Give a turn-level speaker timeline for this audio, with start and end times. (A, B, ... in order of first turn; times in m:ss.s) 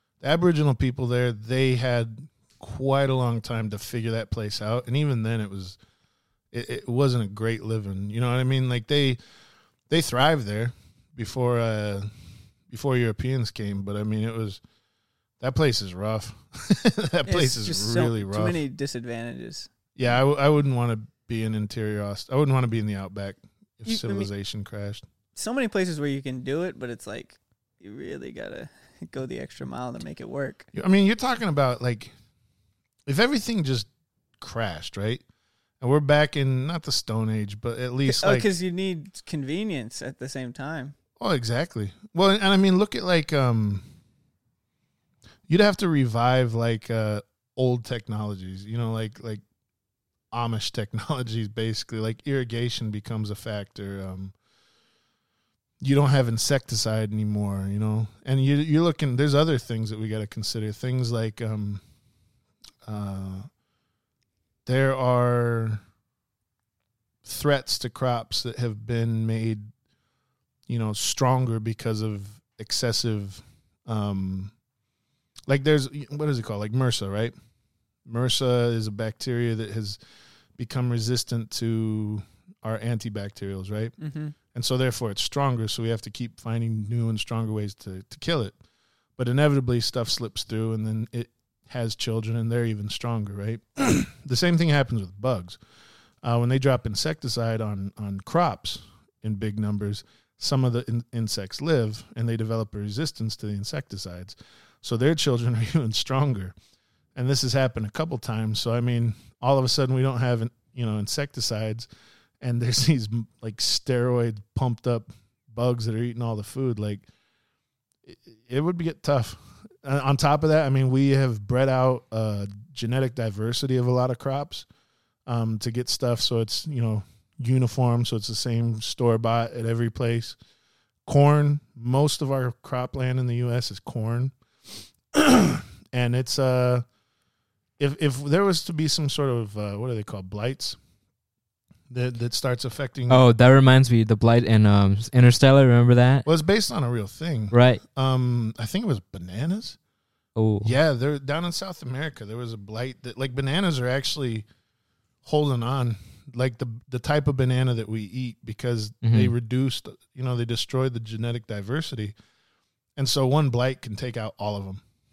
0:00.2-0:05.8 A
0:06.5-0:09.2 A
0:09.9-0:12.1 A
0:12.7-0:14.6 A
0:15.4-0:18.6 A
0:17.2-0:19.7 B
0:20.0-0:25.0 A
0:23.8-0:24.3 B
0:25.3-0:30.7 B
0:30.7-0:32.1 A
0:33.0-0:35.2 A
0:35.8-0:38.5 A
0:38.1-0:40.9 B
0:41.2-0:43.8 A
0:45.5-0:49.4 A
0:50.3-0:54.3 A
0:55.8-1:01.8 A
1:02.8-1:03.5 A
1:04.6-1:05.8 A
1:07.2-1:09.7 A
1:10.7-1:14.5 A
1:15.5-1:17.3 A
1:18.0-1:20.0 A
1:20.6-1:23.9 A
1:24.0-1:24.3 B
1:24.5-1:28.5 A
1:29.2-1:35.6 A
1:36.2-1:46.5 A
1:47.1-1:51.9 A
1:52.4-1:57.0 A
1:58.0-2:04.6 A
2:05.2-2:10.4 A
2:11.0-2:14.3 A
2:15.1-2:16.8 A
2:17.8-2:20.8 A
2:21.9-2:23.2 A
2:23.1-2:26.2 C
2:26.2-2:29.8 A
2:27.5-2:27.8 C
2:30.4-2:30.7 C
2:30.6-2:34.4 A
2:35.2-2:42.1 A
2:39.0-2:39.3 C
2:43.0-2:44.8 A